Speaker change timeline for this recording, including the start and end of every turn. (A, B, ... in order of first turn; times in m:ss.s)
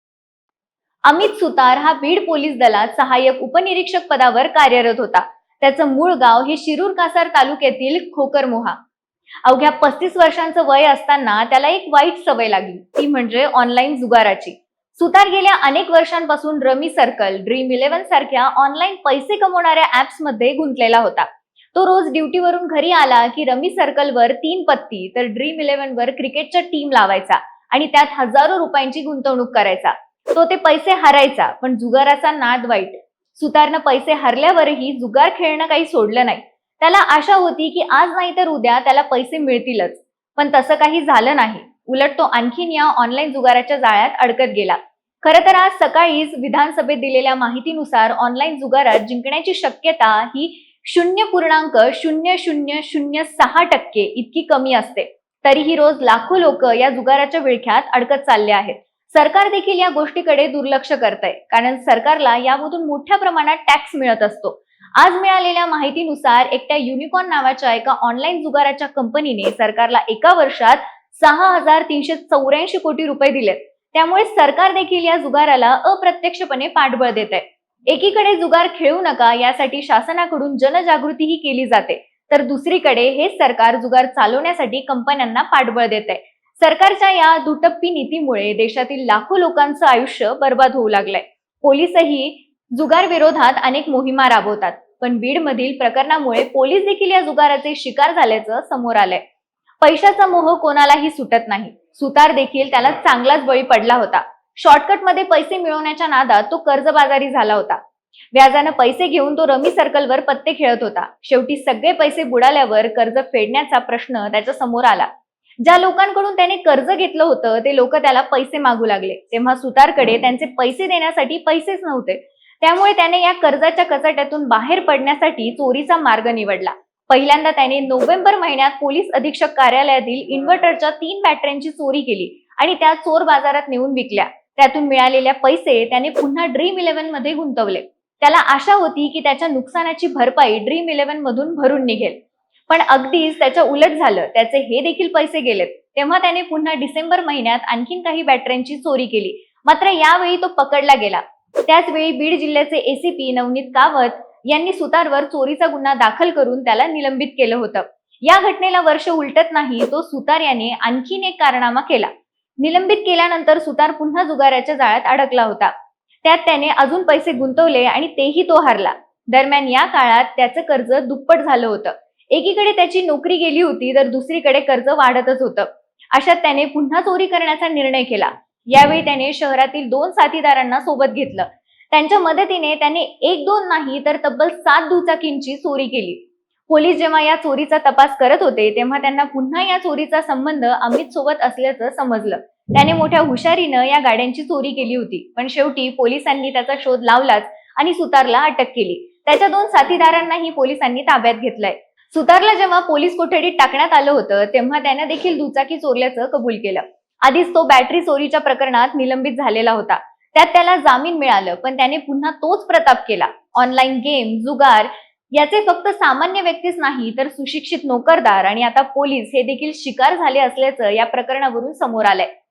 0:01.1-0:08.8 A
0:09.4-1:39.2 A
1:39.8-1:47.8 A
1:48.3-1:55.1 A
1:55.6-2:45.7 A
2:46.2-3:42.3 A